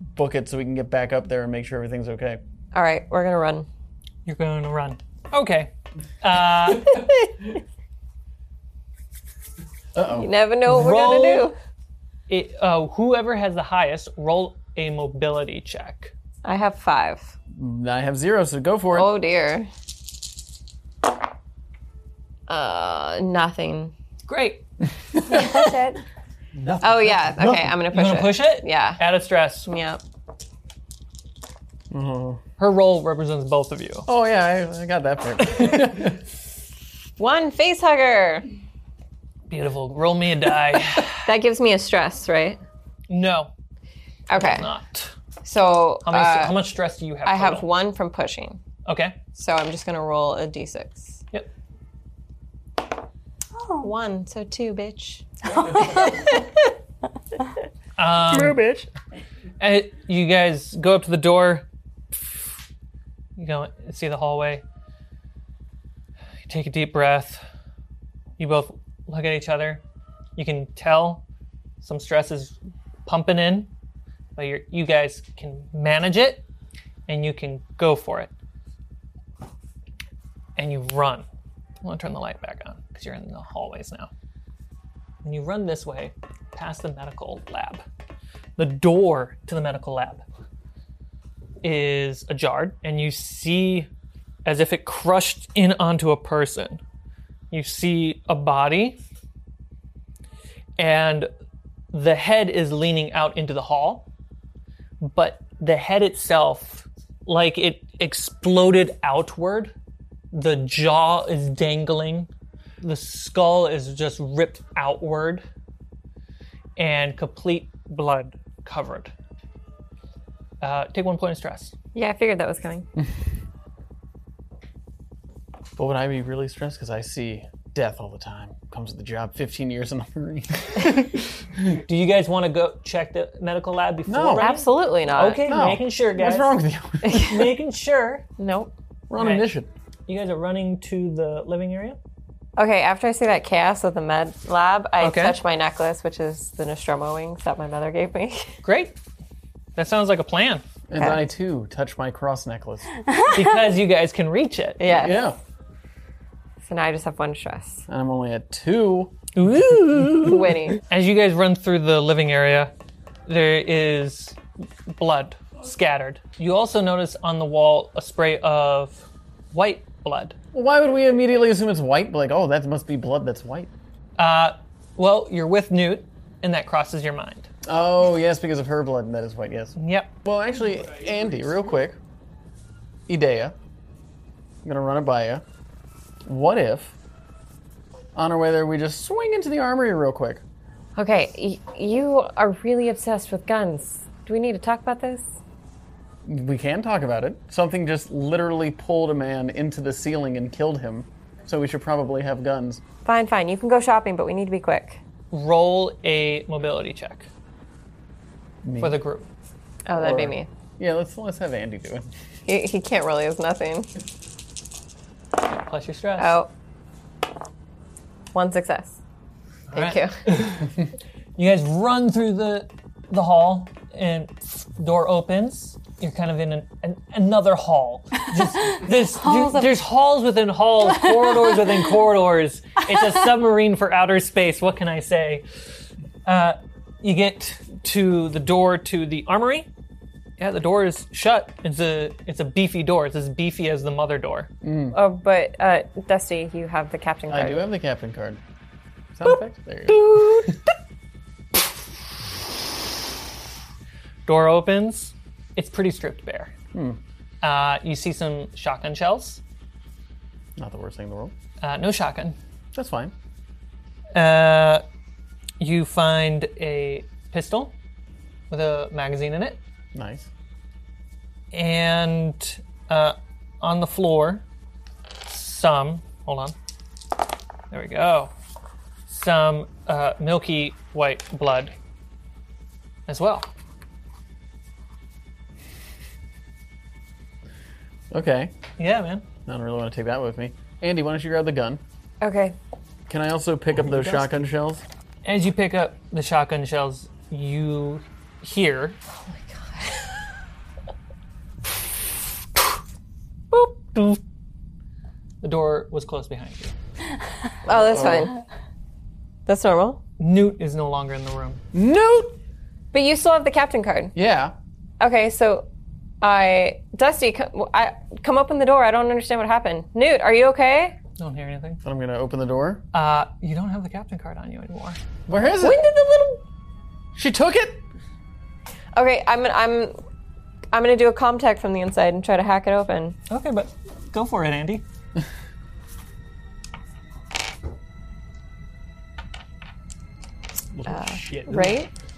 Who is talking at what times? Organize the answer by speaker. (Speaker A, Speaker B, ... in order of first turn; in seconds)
Speaker A: 0.1-2.4, 9.9-10.3, 17.6-19.1, 31.9-32.4, 34.1-36.2, 125.8-130.9, 134.1-134.5, 135.5-137.3, 139.1-139.7, 150.9-152.9, 154.9-155.4, 157.9-159.2, 170.5-173.7, 177.6-182.0, 183.1-183.6, 184.6-185.4, 186.3-186.9, 188.2-190.4, 196.2-202.8, 208.6-209.0, 210.0-212.1, 244.6-245.0, 247.3-248.4, 249.2-250.5, 256.7-257.0, 260.6-261.3, 262.7-263.1, 269.9-270.3, 288.1-288.5, 289.5-291.8, 293.1-294.8, 307.7-308.3, 311.7-312.3, 314.1-314.6, 321.8-322.8, 325.3-325.8, 327.1-327.8
Speaker B: 2.7-3.7, 10.1-11.5, 16.4-17.3, 18.9-19.7, 22.5-23.9, 26.8-29.0, 29.7-30.0, 37.2-38.5, 41.1-42.6, 44.3-44.7, 45.5-46.6, 47.2-48.6, 49.4-51.2, 53.8-56.6, 122.0-122.9, 134.4-135.6, 137.0-137.5, 138.4-138.7, 142.6-148.5, 154.8-155.2, 156.7-157.8, 160.2-160.8, 190.9-195.3, 203.1-205.0, 209.9-210.5, 212.5-213.9, 216.2-216.5, 218.3-219.0, 219.7-220.5, 244.9-247.7, 292.2-292.6, 299.2-300.3, 307.6-308.4, 309.5-310.0, 312.9-314.1, 315.0-315.7, 316.2-321.0, 325.6-326.4, 328.9-329.9, 330.7-333.2, 340.9-341.9
Speaker C: 4.3-7.1, 10.7-11.5, 12.3-16.1, 24.3-24.6, 27.9-29.7, 32.6-34.1, 39.5-41.2, 43.1-43.5, 44.4-45.1, 46.0-47.7, 48.9-49.2, 58.0-58.6, 59.6-62.5, 63.4-64.6, 66.5-67.4, 68.4-69.8, 70.4-71.2, 71.8-73.7, 74.4-76.5, 77.1-78.3, 80.6-81.3, 81.8-84.1, 85.2-87.8, 88.6-90.2, 91.6-93.9, 94.5-96.8, 97.5-99.0, 100.8-101.3, 101.9-104.1, 105.0-109.7, 110.3-112.3, 112.8-115.5, 116.8-119.1, 120.6-121.7, 131.7-138.2, 139.2-139.5, 140.1-142.0, 145.0-145.4, 148.6-149.0, 149.8-150.6, 153.3-154.9, 159.3-162.7, 163.3-170.4, 174.2-177.5, 179.8-180.1, 205.3-207.3, 208.8-209.3, 215.4-216.4, 219.7-220.7, 221.4-235.4, 236.2-239.7, 240.4-244.5, 249.9-250.5, 254.3-256.5, 257.4-259.4, 261.6-262.4, 264.1-264.8, 265.6-267.7, 268.5-269.6, 271.5-274.4, 275.2-276.6, 277.7-278.3, 279.1-281.7, 283.1-283.5, 288.8-289.3, 295.2-299.0, 303.5-304.2, 305.4-306.7, 310.2-311.6, 321.2-321.8, 322.9-325.0, 333.3-334.8
Speaker D: 25.3-26.0, 53.5-53.9, 55.5-56.4, 153.1-153.4, 228.8-229.7, 231.1-231.7
Speaker E: 58.3-58.9, 180.8-181.6, 340.9-341.8